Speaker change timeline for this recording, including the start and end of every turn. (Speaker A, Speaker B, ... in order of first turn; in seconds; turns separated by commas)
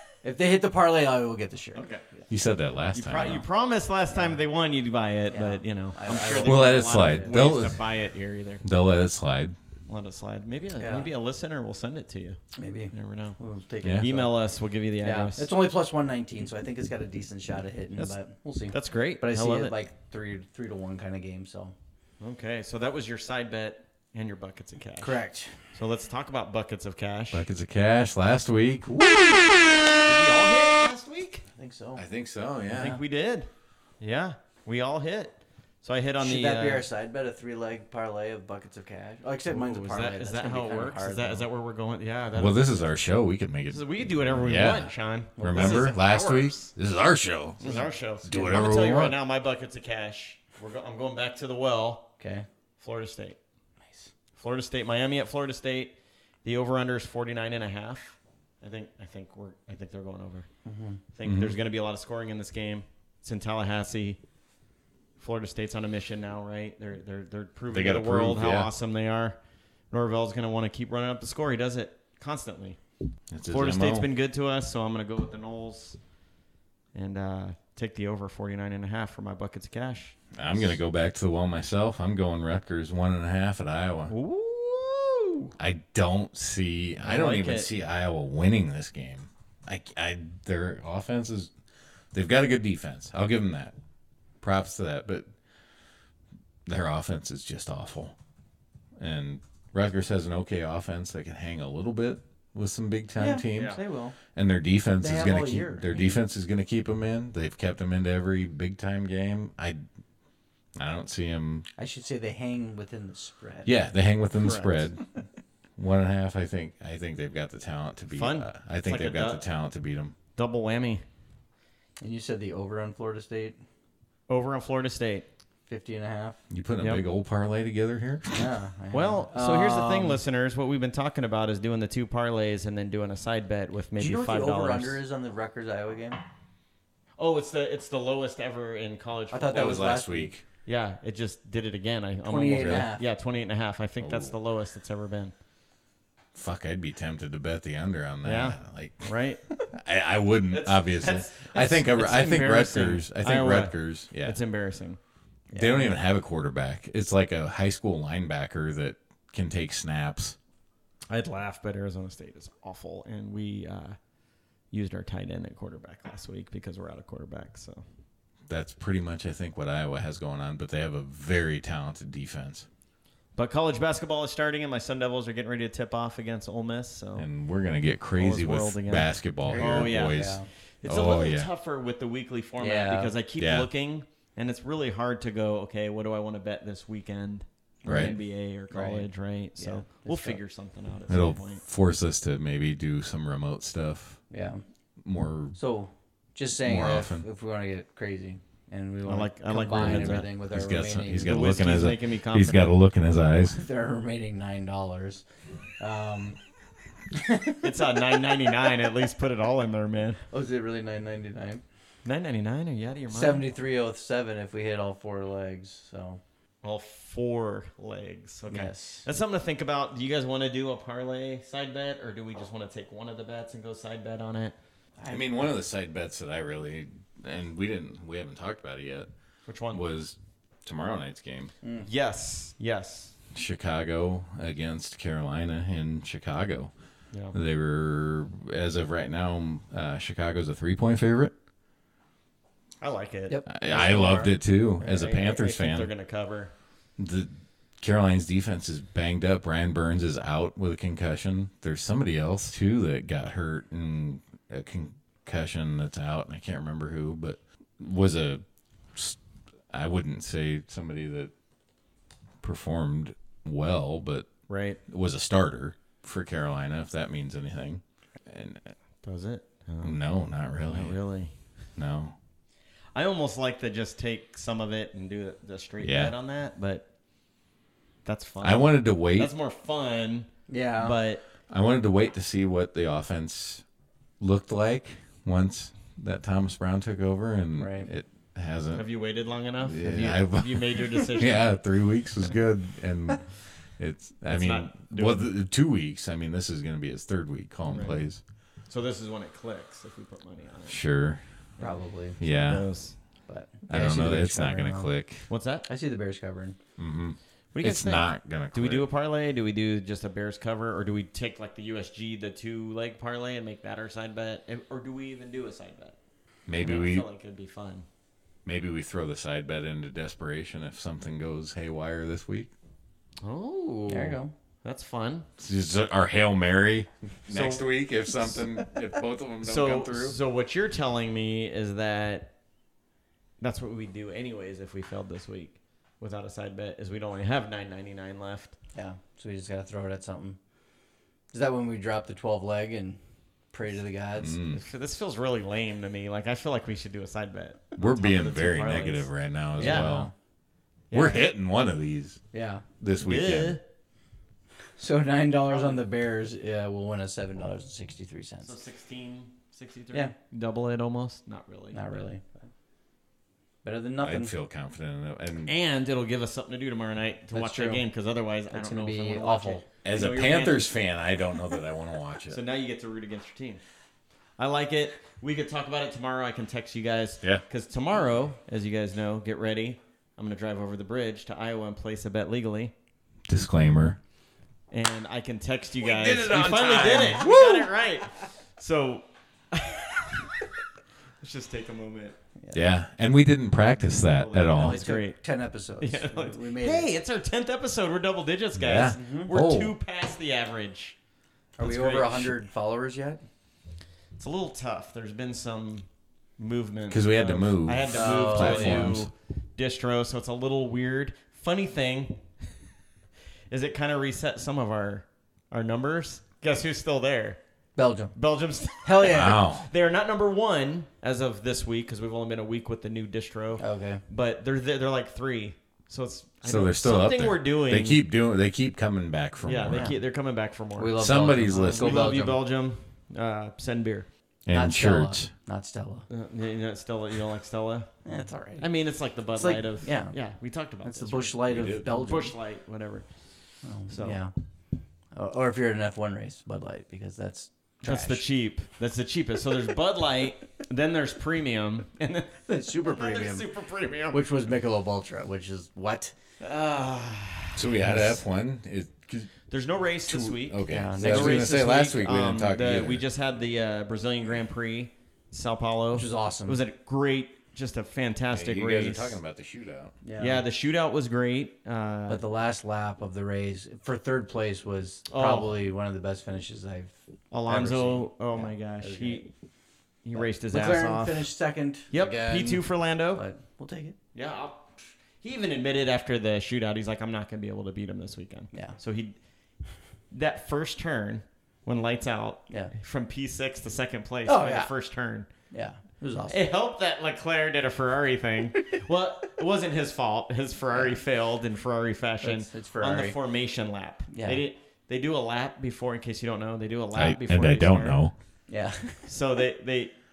Speaker A: 0.2-2.2, Speaker B: 1.7-2.0, Speaker C: 2.3-3.5, Speaker B: 2.9-8.6, Speaker A: 4.1-4.4, Speaker A: 5.3-7.4, Speaker C: 6.4-7.8, Speaker C: 8.6-9.6, Speaker B: 9.9-12.4, Speaker A: 10.8-11.1, Speaker A: 12.6-14.3, Speaker B: 12.9-13.4, Speaker B: 14.0-15.5, Speaker A: 15.0-21.7, Speaker B: 17.9-19.8, Speaker B: 22.2-25.2, Speaker A: 25.0-25.7, Speaker B: 25.7-27.4, Speaker C: 27.3-29.8, Speaker B: 30.0-31.4, Speaker A: 31.5-32.0, Speaker C: 31.9-33.0, Speaker B: 32.7-33.5, Speaker B: 34.0-36.9, Speaker A: 36.2-41.5, Speaker B: 39.5-42.9, Speaker C: 42.3-49.2, Speaker B: 43.7-46.7, Speaker A: 45.4-45.9, Speaker B: 47.6-52.1, Speaker A: 47.6-48.6, Speaker A: 52.2-52.5, Speaker B: 52.8-53.4, Speaker B: 54.4-60.5, Speaker A: 60.6-61.0, Speaker B: 61.1-64.2, Speaker C: 61.2-61.6, Speaker B: 65.2-69.4, Speaker C: 67.7-68.7, Speaker B: 69.9-72.8, Speaker C: 73.3-74.1, Speaker B: 73.5-76.0, Speaker B: 76.9-80.2, Speaker C: 80.3-84.1, Speaker B: 84.1-85.5, Speaker C: 85.6-91.5, Speaker B: 87.0-87.7, Speaker C: 92.1-93.7, Speaker C: 94.4-95.3, Speaker C: 96.7-98.1, Speaker C: 99.0-103.8, Speaker A: 103.2-104.2, Speaker B: 103.5-103.8, Speaker C: 104.3-109.8, Speaker A: 105.0-106.2, Speaker C: 110.8-111.7, Speaker A: 111.8-113.7, Speaker C: 113.6-115.0, Speaker B: 114.4-114.9, Speaker C: 115.8-120.2, Speaker B: 118.1-119.5, Speaker B: 120.4-121.0, Speaker A: 122.0-123.6, Speaker B: 124.3-125.3, Speaker A: 125.7-126.4, Speaker C: 126.5-128.5, Speaker A: 128.3-130.2, Speaker B: 128.9-135.0, Speaker A: 133.9-136.2, Speaker B: 137.2-140.0, Speaker A: 139.3-140.3, Speaker C: 139.5-140.4, Speaker B: 140.6-145.3, Speaker A: 142.2-143.0, Speaker C: 142.6-142.9, Speaker C: 144.0-144.3, Speaker C: 146.3-149.1, Speaker B: 148.2-149.4, Speaker C: 149.7-154.4, Speaker B: 150.5-155.0, Speaker A: 155.5-156.0, Speaker C: 155.6-160.4, Speaker B: 161.1-164.0, Speaker B: 164.7-167.8, Speaker C: 168.5-172.7, Speaker B: 173.3-177.3, Speaker C: 177.1-181.5, Speaker B: 178.2-191.6, Speaker A: 179.4-180.5, Speaker A: 182.6-183.1, Speaker C: 183.4-183.7, Speaker A: 187.8-188.1, Speaker C: 187.9-188.1, Speaker A: 188.7-190.4, Speaker C: 191.1-194.2, Speaker A: 194.3-194.6, Speaker C: 195.0-195.6, Speaker A: 195.6-201.3, Speaker C: 196.6-197.2, Speaker B: 199.1-200.3, Speaker C: 199.7-203.6, Speaker B: 201.2-202.7, Speaker A: 203.4-205.2, Speaker A: 205.8-206.4, Speaker A: 207.1-207.7, Speaker B: 207.6-210.2, Speaker A: 210.3-211.6, Speaker B: 212.0-213.5, Speaker A: 213.1-216.2, Speaker B: 216.6-224.5, Speaker A: 218.5-219.1, Speaker A: 225.0-225.3, Speaker C: 225.1-229.1, Speaker B: 229.4-229.8, Speaker C: 229.7-231.5, Speaker A: 231.6-231.9, Speaker B: 231.8-233.2, Speaker C: 233.3-236.7, Speaker C: 237.3-241.3, Speaker B: 242.8-243.5, Speaker A: 243.3-244.3, Speaker C: 243.5-245.9, Speaker B: 244.8-246.5, Speaker C: 247.0-259.2, Speaker C: 259.7-261.3, Speaker C: 262.4-264.3, Speaker B: 264.5-264.8, Speaker C: 264.9-268.7, Speaker B: 269.0-270.0, Speaker C: 269.8-271.0, Speaker B: 270.6-271.3, Speaker C: 271.8-272.1, Speaker B: 272.9-276.9, Speaker C: 275.8-276.1, Speaker B: 278.0-281.2, Speaker C: 278.4-279.3, Speaker A: 280.5-281.0, Speaker C: 281.5-283.6, Speaker C: 284.2-288.9, Speaker A: 287.6-287.9, Speaker B: 288.7-291.6, Speaker C: 289.6-298.2, Speaker B: 294.3-295.3, Speaker B: 297.7-298.1, Speaker B: 298.7-300.8, Speaker C: 300.6-301.2, Speaker B: 301.6-302.9, Speaker A: 301.6-302.2, Speaker C: 302.2-302.7, Speaker A: 303.3-304.9, Speaker C: 303.7-305.3, Speaker B: 305.3-305.6, Speaker A: 305.6-306.6, Speaker C: 306.8-308.9, Speaker B: 307.5-316.0, Speaker C: 316.5-317.1, Speaker B: 316.6-317.9, Speaker C: 318.4-322.5, Speaker B: 323.2-325.3, Speaker A: 323.9-324.3, Speaker C: 325.4-330.1, Speaker B: 327.3-327.7, Speaker B: 329.4-332.3, Speaker B: 333.4-338.6, Speaker A: 338.7-340.4, Speaker A: 341.3-343.0, Speaker A: 343.5-344.4, Speaker C: 344.2-344.6, Speaker B: 344.5-350.0, Speaker C: 347.8-350.1, Speaker A: 349.6-350.1, Speaker B: 350.9-351.3, Speaker C: 350.9-352.2, Speaker A: 352.3-352.6, Speaker C: 352.8-353.6, Speaker B: 353.0-353.6, Speaker A: 354.8-358.5, Speaker B: 355.5-355.8, Speaker B: 358.4-361.9, Speaker A: 361.7-362.5, Speaker A: 363.6-364.3, Speaker C: 364.0-365.5, Speaker B: 365.5-370.7, Speaker A: 367.3-367.9, Speaker A: 368.5-369.6, Speaker C: 369.8-372.4, Speaker B: 372.3-373.6, Speaker B: 374.4-382.7, Speaker C: 383.3-384.0, Speaker B: 384.7-390.3, Speaker C: 385.8-387.7, Speaker A: 386.4-387.3, Speaker B: 391.2-392.1, Speaker C: 392.5-394.9, Speaker B: 393.9-395.2, Speaker A: 394.6-396.9, Speaker B: 395.8-400.9, Speaker C: 398.6-399.7, Speaker A: 398.8-399.3, Speaker A: 401.6-403.2, Speaker B: 401.6-402.3, Speaker B: 404.2-405.9, Speaker B: 406.4-412.2, Speaker C: 406.9-409.1, Speaker A: 407.9-409.0, Speaker B: 413.5-417.4, Speaker A: 417.8-418.1, Speaker B: 418.1-428.0, Speaker A: 418.8-419.4, Speaker C: 419.0-419.7, Speaker A: 423.6-424.0, Speaker C: 426.4-429.9, Speaker B: 429.4-434.1, Speaker A: 429.7-430.0, Speaker A: 430.8-432.4, Speaker C: 431.0-432.1, Speaker C: 434.4-435.3, Speaker A: 434.5-436.1, Speaker B: 436.1-437.9, Speaker A: 438.0-438.7, Speaker B: 438.6-443.1, Speaker A: 439.3-440.1, Speaker A: 440.8-442.4, Speaker C: 441.5-441.9, Speaker A: 443.6-444.3, Speaker B: 443.9-444.2, Speaker A: 445.1-448.2, Speaker B: 447.9-454.2, Speaker A: 452.4-453.5, Speaker A: 454.1-456.1, Speaker B: 456.4-457.6, Speaker C: 457.5-459.3, Speaker B: 459.5-469.2, Speaker C: 460.1-463.0, Speaker A: 460.7-461.5, Speaker A: 465.9-466.6, Speaker C: 468.3-469.9, Speaker A: 470.0-470.4, Speaker B: 470.2-472.2, Speaker A: 472.1-479.3, Speaker B: 475.1-475.5, Speaker B: 477.3-479.3, Speaker B: 480.0-481.3, Speaker A: 480.1-483.9, Speaker B: 481.9-483.2, Speaker B: 484.1-489.1, Speaker B: 490.1-495.3, Speaker A: 494.2-494.7, Speaker A: 495.5-496.4, Speaker B: 496.3-508.1, Speaker A: 500.7-501.0, Speaker A: 502.2-503.1, Speaker A: 504.1-504.4, Speaker C: 506.9-508.1, Speaker A: 508.5-509.1, Speaker B: 509.1-509.9